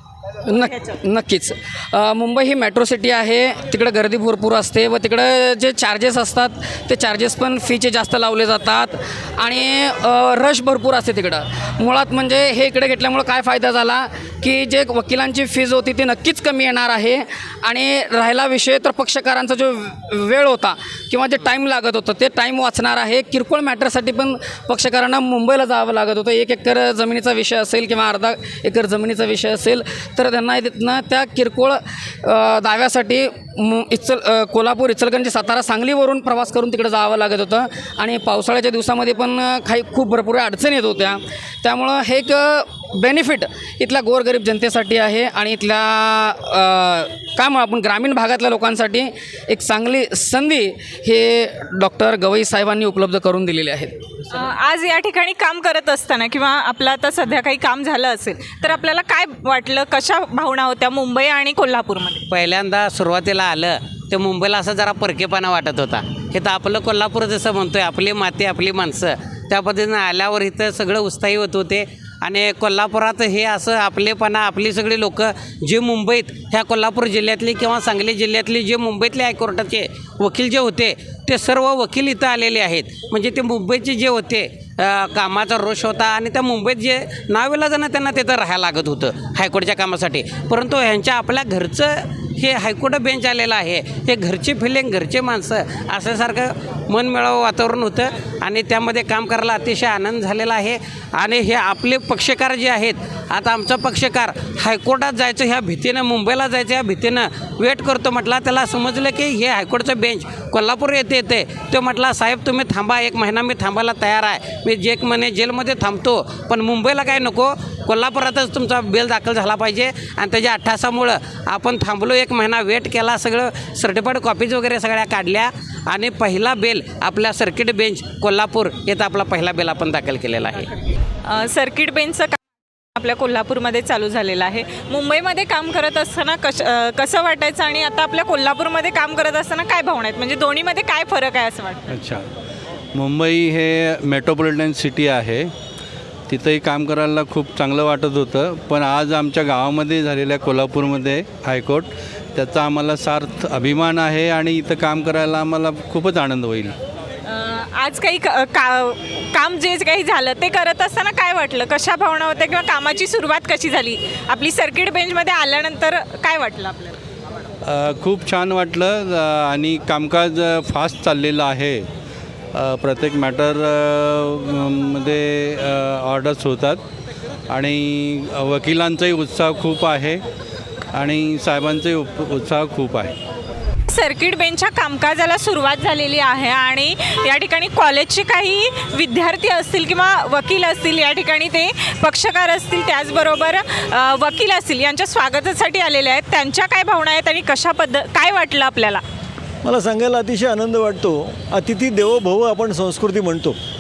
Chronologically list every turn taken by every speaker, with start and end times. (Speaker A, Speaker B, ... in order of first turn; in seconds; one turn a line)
Speaker A: 0.5-53.9
Speaker B: 0.5-0.9
Speaker B: 54.3-62.2
Speaker C: 62.3-130.7
Speaker B: 131.3-132.4
Speaker B: 133.0-141.8
Speaker D: 141.9-142.2
Speaker D: 142.9-145.5
Speaker D: 146.3-156.7
Speaker B: 157.2-167.0
Speaker D: 167.7-171.9
Speaker D: 172.5-176.8
Speaker D: 177.5-180.2
Speaker D: 180.9-183.1
Speaker B: 183.9-199.0
Speaker E: 199.6-203.6